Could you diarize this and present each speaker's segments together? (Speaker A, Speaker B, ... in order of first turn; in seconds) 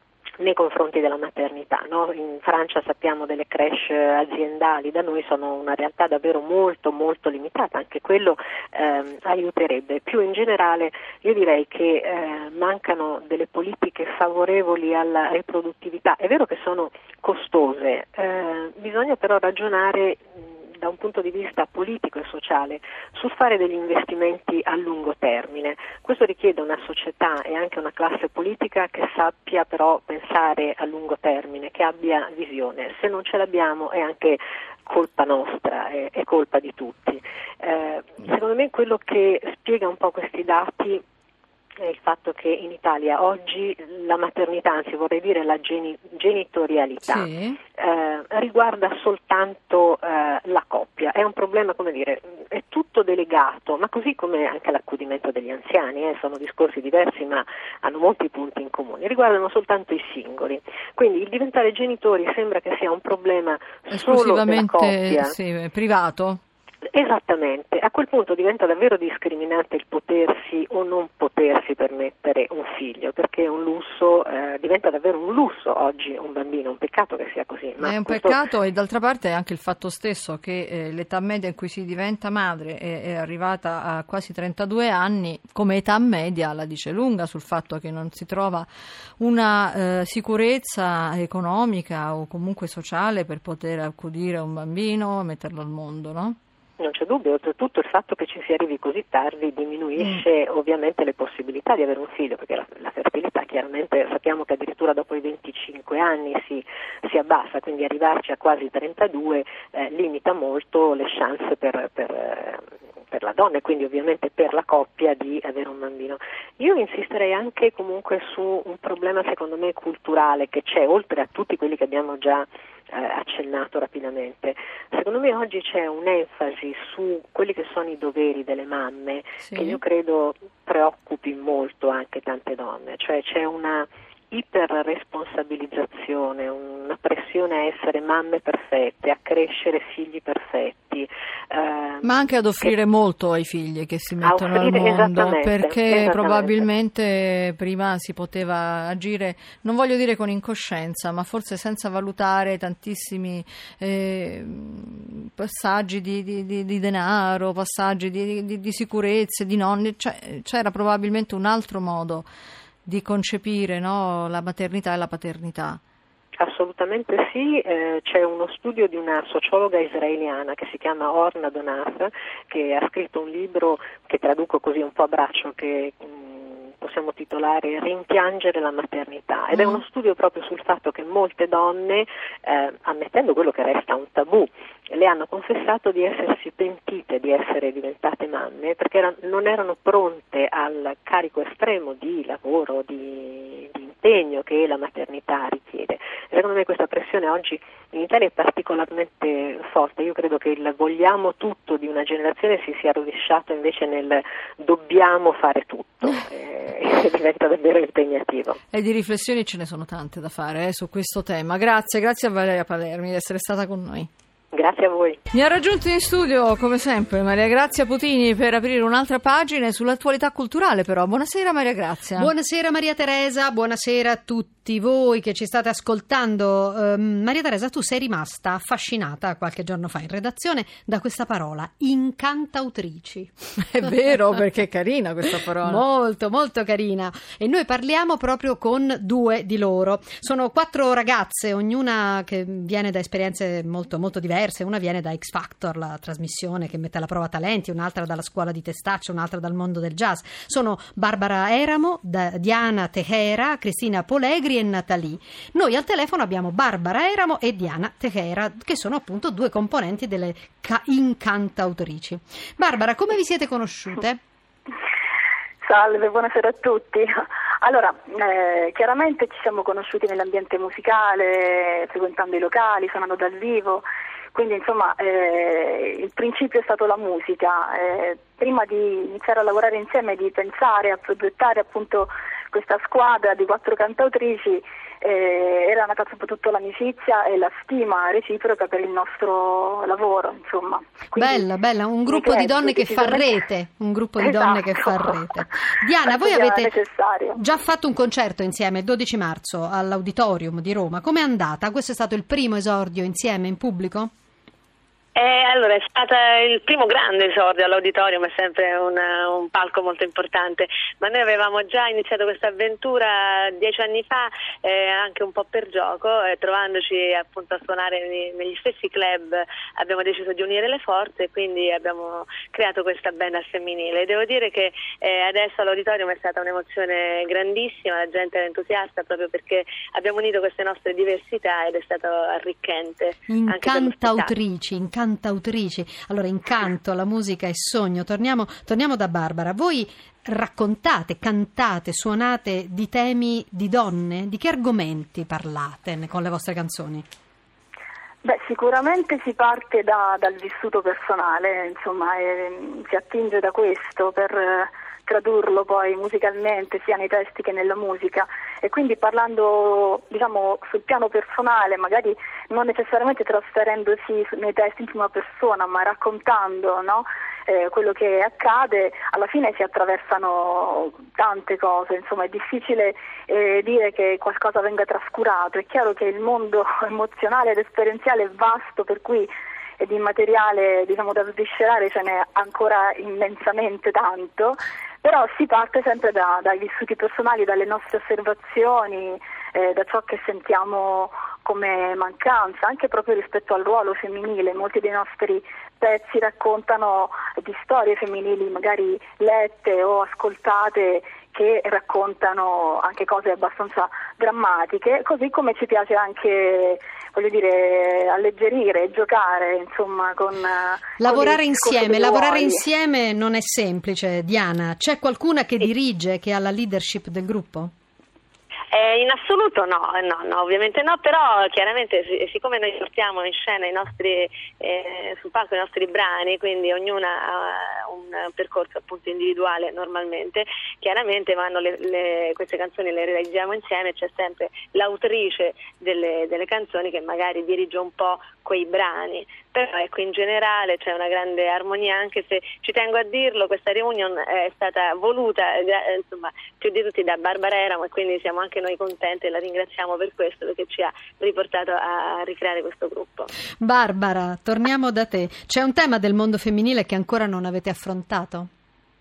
Speaker A: 0.4-41.0, 41.8-65.3, 66.9-78.4, 96.8-142.8, 144.2-146.7, 166.4-208.6, 214.5-215.2
Speaker B: 47.0-47.6, 63.9-66.4, 77.8-88.7, 89.2-96.4, 100.0-100.2, 129.4-129.8, 142.0-162.3, 162.9-165.8, 208.7-214.1, 215.3-222.3, 233.7-235.8
Speaker C: 222.2-233.3, 235.6-264.2, 291.2-296.8, 297.3-304.1, 333.3-347.1, 411.0-417.7, 453.6-458.5
Speaker D: 265.6-291.5, 292.1-293.4, 294.2-295.1, 296.1-297.4, 348.2-412.6
Speaker E: 305.1-334.4, 418.7-453.3